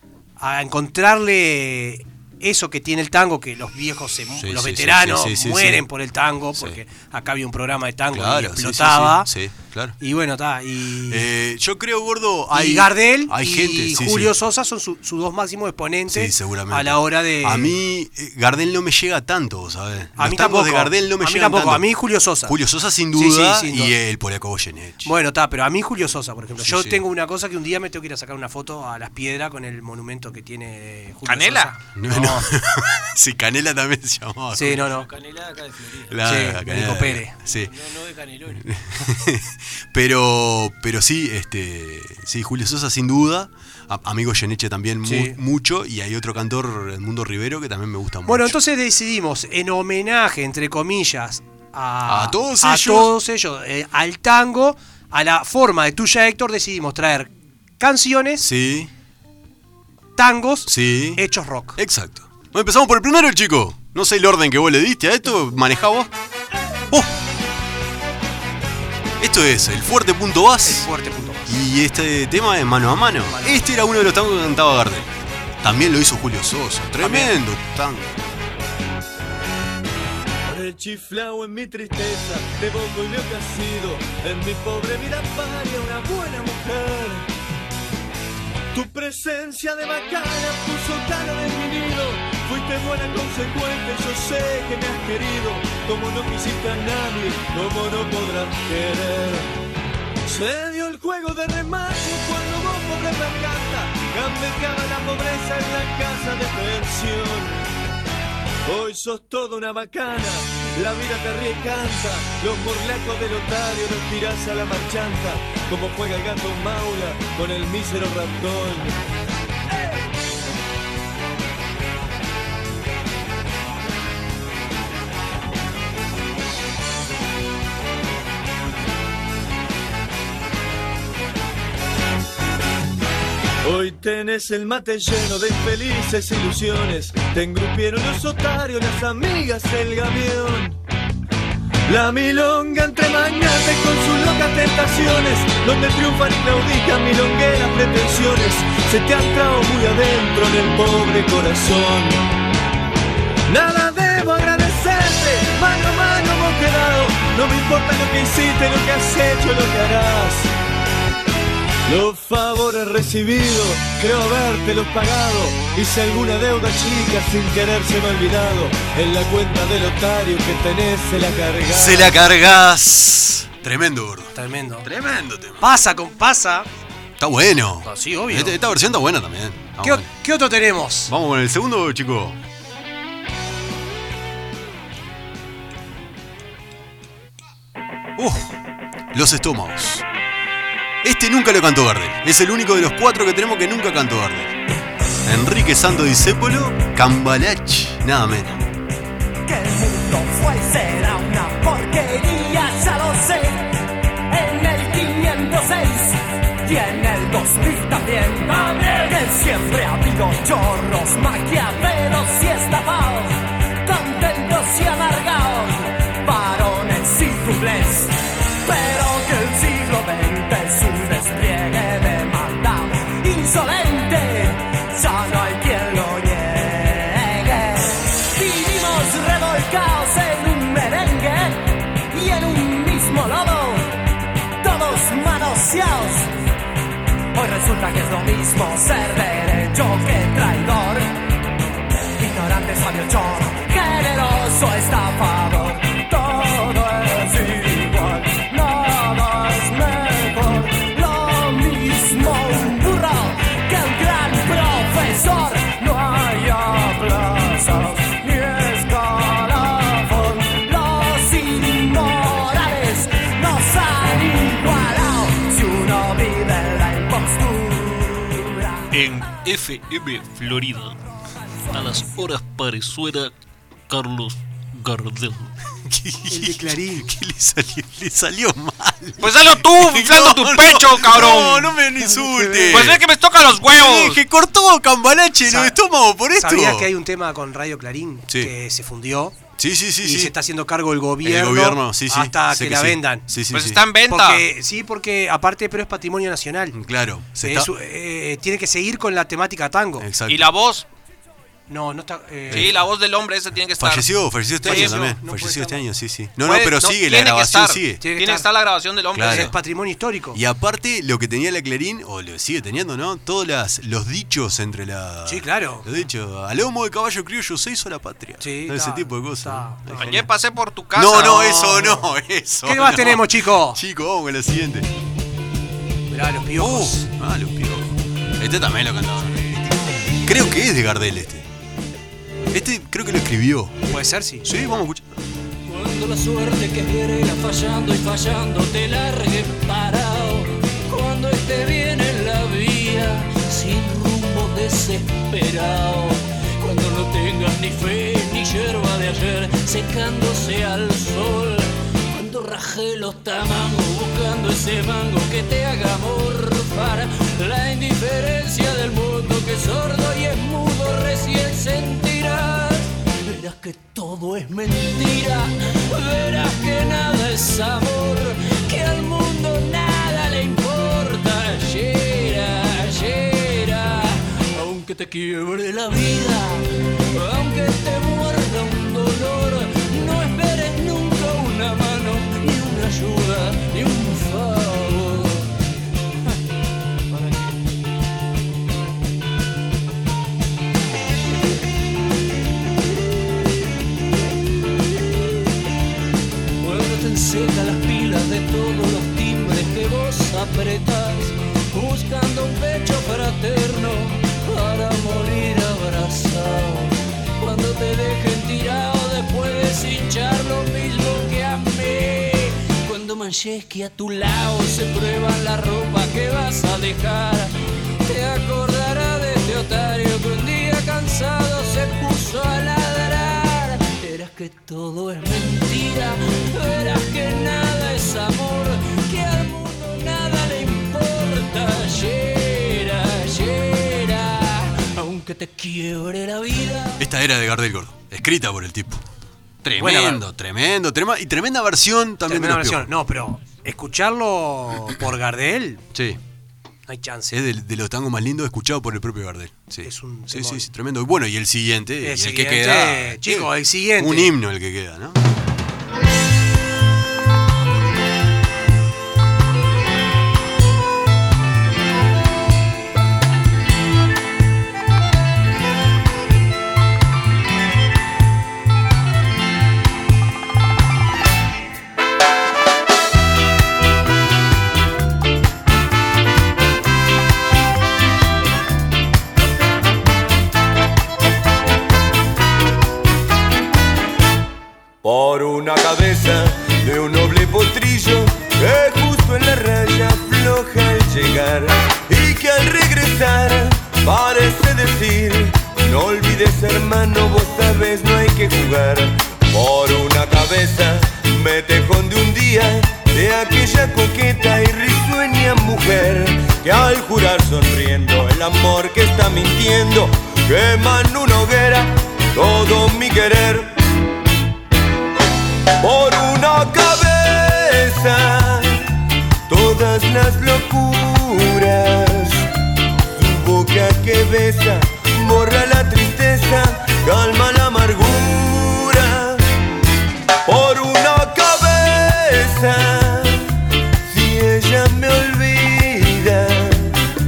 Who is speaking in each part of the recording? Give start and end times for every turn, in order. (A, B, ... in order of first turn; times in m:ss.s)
0:00.4-0:09.3 A
0:04.4-0:05.9 B
0:08.1-0:10.0 B
0:10.0-0:11.3 A
0:11.1-0:14.3 B
0:12.5-0:17.8 A
0:16.1-0:25.1 B
0:20.2-0:22.6 A
0:23.1-0:24.0 A
0:25.0-0:32.5 A
0:26.6-0:27.0 B
0:31.2-0:31.7 C
0:32.0-0:34.9 B
0:34.5-0:35.1 A
0:34.9-0:36.2 D
0:36.1-0:37.7 B
0:36.2-0:37.4 A
0:37.4-0:38.7 D
0:38.5-0:48.6 B
0:45.0-0:45.4 A
0:48.3-0:58.4 A
0:52.0-0:53.1 B
0:58.4-0:58.9 B
1:00.2-1:01.8 A
1:00.7-1:01.2 B
1:01.8-1:06.1 B
1:09.2-1:10.9 B
1:10.6-1:11.6 A
1:11.4-1:18.3 B
1:13.3-1:13.6 A
1:17.0-1:17.3 A
1:20.4-1:27.3 E
1:28.7-1:39.5 E
1:40.3-1:47.6 E
1:48.7-1:59.0 E
2:13.6-2:20.8 E
2:21.9-2:32.2 E
2:33.5-2:40.5 E
2:41.9-2:52.1 E
2:51.7-2:55.7 B
2:54.4-2:54.9 A
2:55.6-2:56.7 A
2:57.2-3:00.1 B
2:57.8-2:58.6 A
2:59.8-3:01.1 A
3:01.1-3:02.4 B
3:08.2-3:08.6 B
3:09.1-3:10.0 B
3:11.0-3:14.6 B
3:15.2-3:18.6 B
3:19.4-3:23.8 F
3:24.3-3:54.0 F
3:54.6-3:56.3 F
3:57.4-4:01.2 F
4:02.2-4:28.9 F
4:28.9-4:31.0 G
4:31.7-4:33.3 G
4:33.9-4:35.5 G
4:35.8-4:43.1 B
4:36.3-4:37.1 A
4:39.2-4:41.8 C
4:42.0-4:42.9 A
4:42.7-4:44.2 C
4:43.6-4:46.9 B
4:45.4-4:45.8 A
4:46.3-4:49.4 A
4:49.6-4:50.4 B
4:50.0-4:53.3 A
4:51.2-4:53.8 B
4:53.5-4:54.4 C
4:54.1-4:56.8 A
4:56.7-4:57.7 B
4:57.4-5:00.1 A
5:00.0-5:00.5 B
5:00.3-5:00.9 C
5:01.7-5:02.8 A
5:02.5-5:02.8 B
5:02.5-5:04.1 C
5:03.8-5:08.0 B
5:04.6-5:05.1 C
5:04.6-5:05.8 A
5:06.5-5:09.5 C
5:08.0-5:08.5 A
5:09.1-5:09.6 B
5:09.2-5:10.4 A
5:10.3-5:20.3 B
5:15.3-5:15.9 A
5:18.4-5:20.2 A
5:20.0-5:21.8 C
5:20.9-5:24.9 B
5:21.1-5:22.1 A
5:22.6-5:23.8 A
5:26.1-5:27.1 A
5:26.6-5:29.5 B
5:30.2-5:31.5 B
5:32.5-5:33.8 B
5:33.9-5:34.4 A
5:34.4-5:35.0 B
5:35.7-6:25.5 H
6:36.6-6:57.5 H
6:58.0-7:17.0 H
7:17.0-7:19.0 B
7:19.6-7:22.9 B
7:19.8-7:20.2 A
7:22.3-7:25.8 A
7:25.9-7:26.2 B
7:26.9-7:27.4 A
7:27.3-7:35.2 B
7:29.8-7:30.7 A
7:32.0-7:34.4 A
8:05.0-8:33.8 I
8:35.8-8:39.0 I
8:39.5-8:42.5 I
8:43.1-8:49.4 I
8:50.4-8:57.0 I